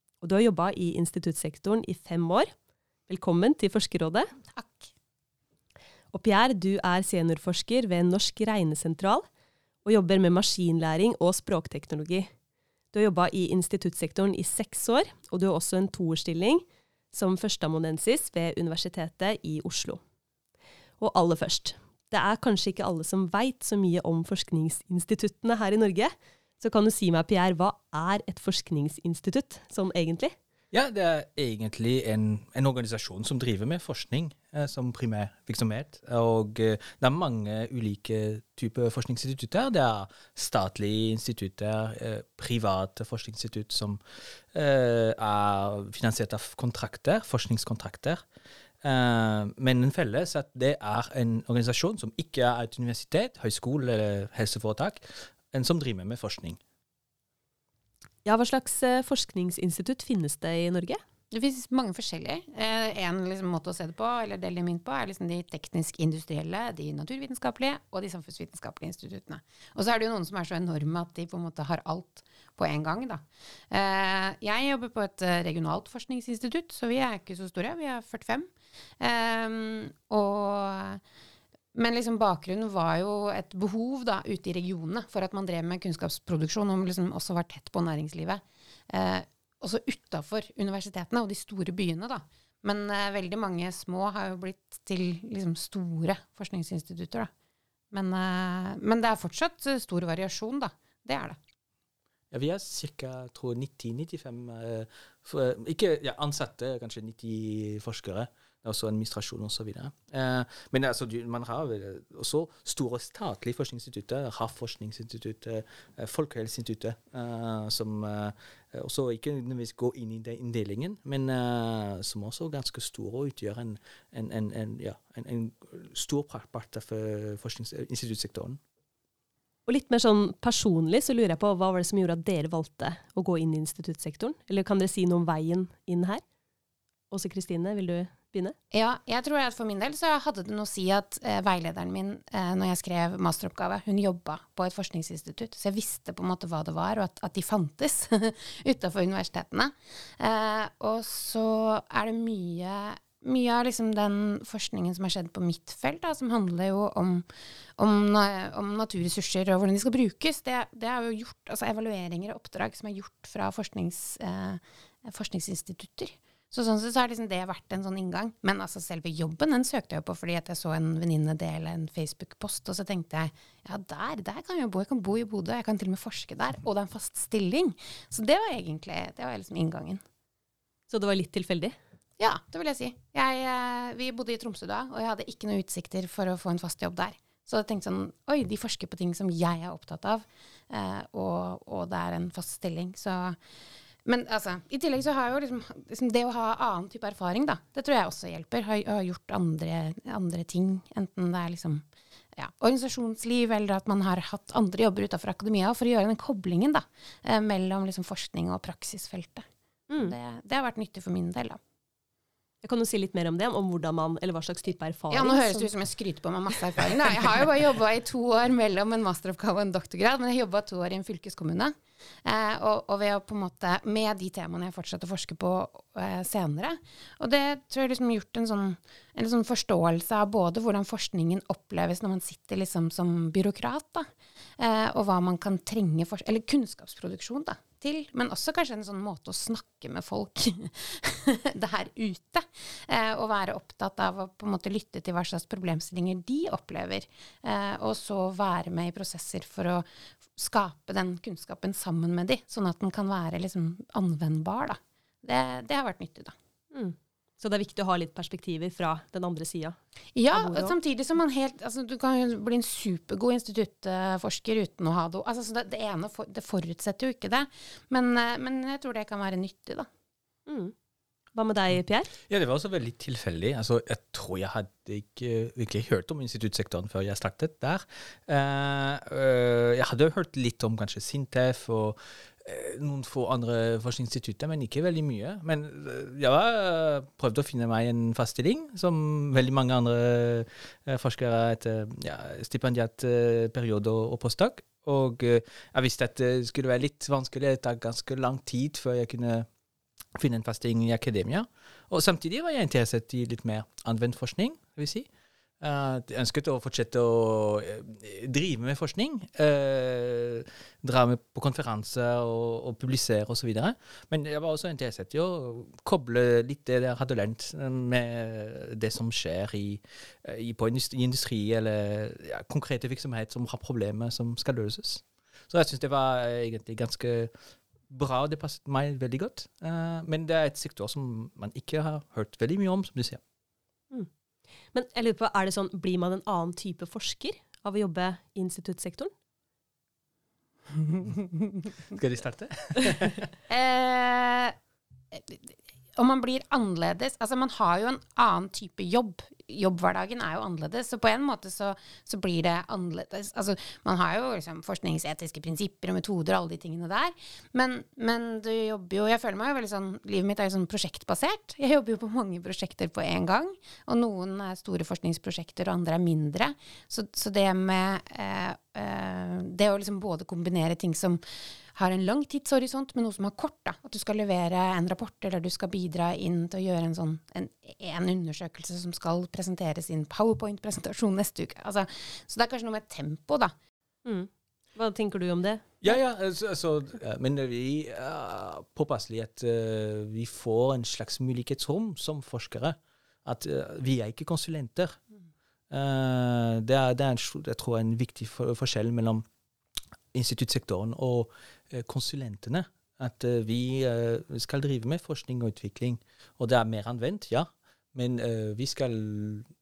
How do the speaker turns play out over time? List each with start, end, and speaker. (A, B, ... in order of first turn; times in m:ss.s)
0:00.2-0:02.5 A
0:03.1-0:04.3 A
0:04.5-0:04.9 B
0:06.1-0:09.3 A
0:09.8-0:12.3 A
0:12.9-0:20.0 A
0:21.0-0:30.4 A
0:30.7-0:44.0 C
0:44.5-0:48.2 C
0:48.8-0:56.6 C
0:58.2-1:01.0 A
1:01.3-1:18.5 B
1:19.0-1:21.0 B
1:21.8-1:37.3 B
1:37.9-1:41.4 B
1:42.3-2:08.6 C
2:09.7-2:16.2 A
2:17.1-2:18.6 A
2:18.7-2:37.2 B
2:37.8-3:00.0 B
3:00.9-3:01.8 A
3:02.2-3:13.4 B
3:14.0-3:21.8 B
3:22.4-3:31.6 B
3:32.6-3:35.7 A
3:35.1-4:16.3 B
4:16.7-4:19.8 A
4:20.2-4:29.9 B
4:20.3-4:20.7 A
4:30.5-4:30.7 A
4:31.3-4:32.1 A
4:32.3-4:59.5 C
5:00.2-5:05.1 C
5:05.6-5:27.3 C
5:27.9-5:33.2 C
5:34.7-5:39.1 A
5:41.9-5:43.1 C
5:43.5-5:44.6 B
5:45.1-6:11.2 B
6:11.8-6:23.5 B
6:24.0-6:25.9 A
6:25.8-6:35.0 C
6:35.7-6:39.2 C
6:40.1-6:49.5 C